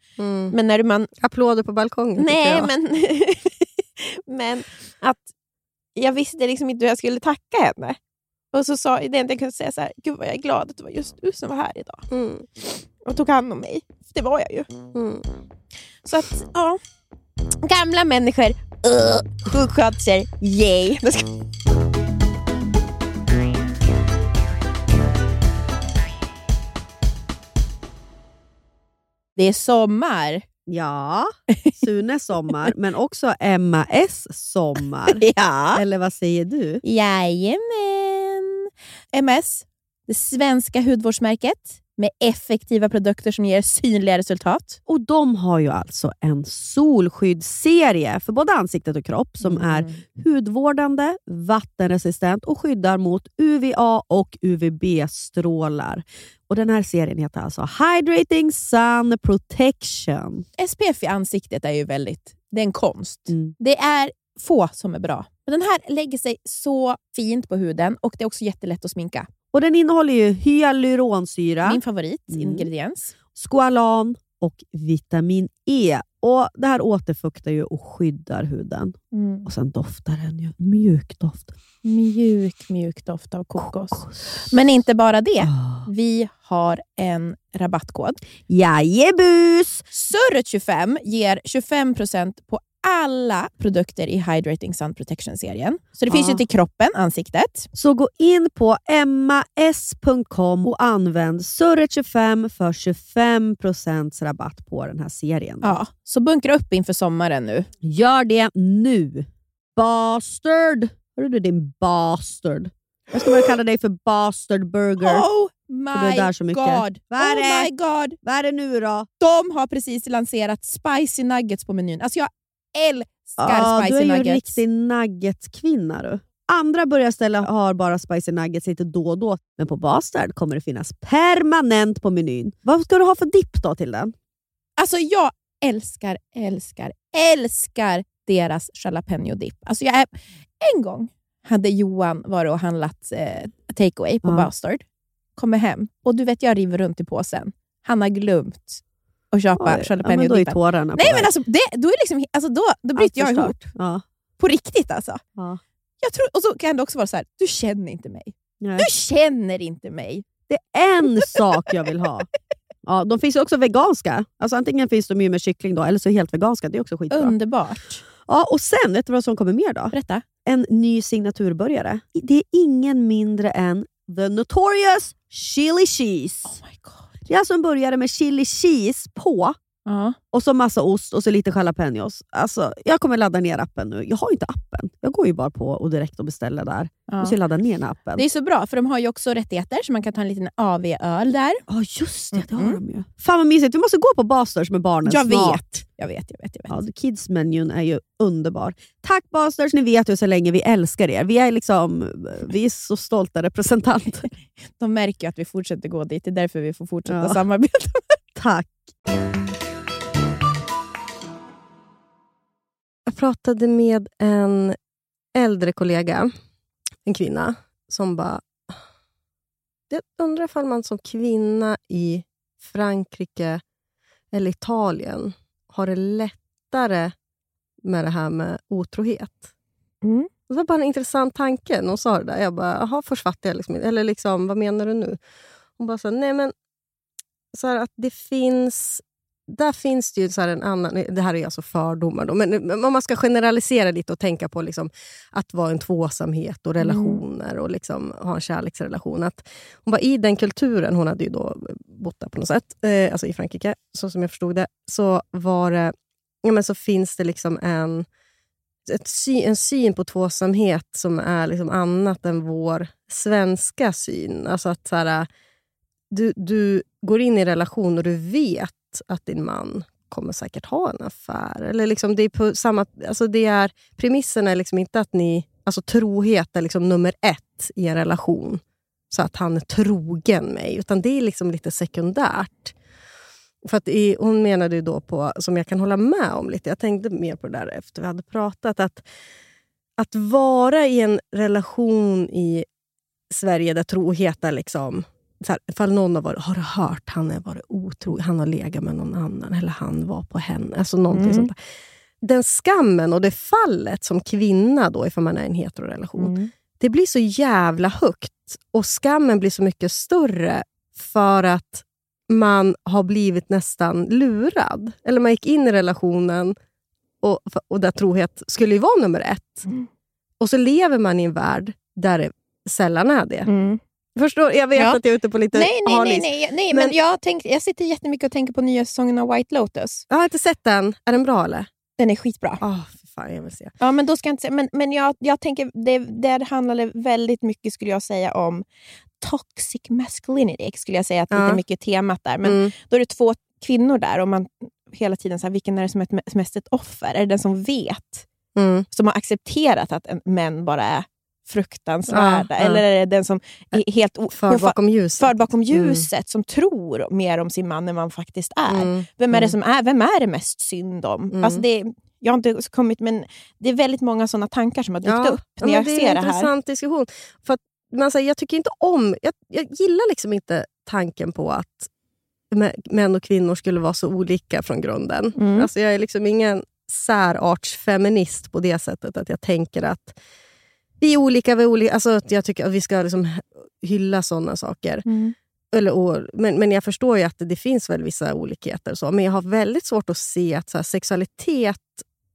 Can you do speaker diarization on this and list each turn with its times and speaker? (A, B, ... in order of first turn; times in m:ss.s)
0:00.2-0:00.5 A
0:00.5-0:01.1 B
0:01.2-0:02.7 A
0:02.2-0:05.3 B
0:06.0-0:08.0 B
0:08.5-0:12.1 B
0:12.1-0:12.4 A
0:12.6-0:14.7 B
0:14.9-0:15.2 A
0:16.0-0:16.8 B
0:17.6-0:21.3 B
0:29.4-0:30.4 B
0:30.7-0:36.8 C
0:35.1-0:35.8 B
0:36.8-0:44.8 B
0:44.9-1:00.4 C
0:49.4-0:49.9 B
1:00.6-1:09.3 B
1:09.5-1:12.7 C
1:11.6-1:13.1 B
1:13.3-1:21.5 C
1:19.1-1:19.5 B
1:21.8-1:28.2 B
1:23.6-1:24.5 C
1:25.4-1:25.9 C
1:28.5-1:29.8 C
1:29.9-1:37.7 B
1:36.1-1:36.4 C
1:37.7-1:45.8 C
1:45.6-1:47.7 B
1:47.8-1:55.2 C
1:55.0-1:58.2 B
1:55.9-1:59.1 C
1:59.2-2:04.6 B
2:03.4-2:14.1 C
2:14.8-2:24.8 B
2:24.2-2:24.5 C
2:25.4-2:33.7 B
2:29.6-2:31.3 C
2:33.0-2:34.0 C
2:34.4-2:35.2 B
2:36.0-2:40.2 B
2:38.6-2:38.9 C
2:40.5-2:42.2 C
2:42.8-2:47.4 C
2:47.1-2:48.0 B
2:48.2-2:56.6 C
2:49.9-2:50.2 B
2:56.4-2:57.1 B
2:57.3-2:59.6 C
2:59.8-3:00.2 B
3:00.3-3:08.2 C
3:07.1-3:07.4 B
3:08.1-3:11.6 B
3:11.7-3:15.8 C
3:12.3-3:12.8 B
3:15.0-3:16.8 B
3:16.7-3:24.3 C
3:24.8-3:28.2 B
3:27.1-3:27.4 C
3:28.4-3:28.7 C
3:33.0-3:34.8 A
3:35.3-3:36.3 A
3:37.0-3:38.8 A
3:39.9-3:43.6 A
3:44.3-3:47.1 A
3:47.8-3:49.5 A
3:50.0-3:50.3 B
3:50.5-3:55.2 A
3:55.8-3:56.5 A
3:57.5-4:15.9 A
4:06.8-4:07.2 B
4:16.4-4:18.1 A
4:18.9-4:25.3 A
4:26.1-4:42.7 A
4:43.6-4:49.0 A
4:50.0-4:52.6 A
4:53.3-5:01.6 A
5:01.1-5:01.5 B
5:02.2-5:16.6 A
5:06.2-5:06.5 B
5:17.2-5:19.7 A
5:20.4-5:23.5 A
5:23.4-5:23.8 B
5:24.2-5:27.0 A
5:25.5-5:30.0 B
5:30.1-5:31.7 A
5:32.0-5:32.6 B
5:32.6-5:33.7 A
5:33.8-5:38.6 B
5:39.2-5:48.2 B
5:41.3-5:41.6 A
5:42.4-5:42.7 A
5:48.6-5:48.9 A
5:48.9-6:06.5 B
5:52.1-5:52.8 A
5:54.3-5:56.0 A
5:58.7-5:59.5 A
6:01.3-6:01.6 A
6:05.0-6:11.9 A
6:12.5-6:20.2 A
6:15.4-6:15.7 B
6:21.0-6:25.0 A
6:25.0-6:25.3 B
6:25.7-6:32.0 A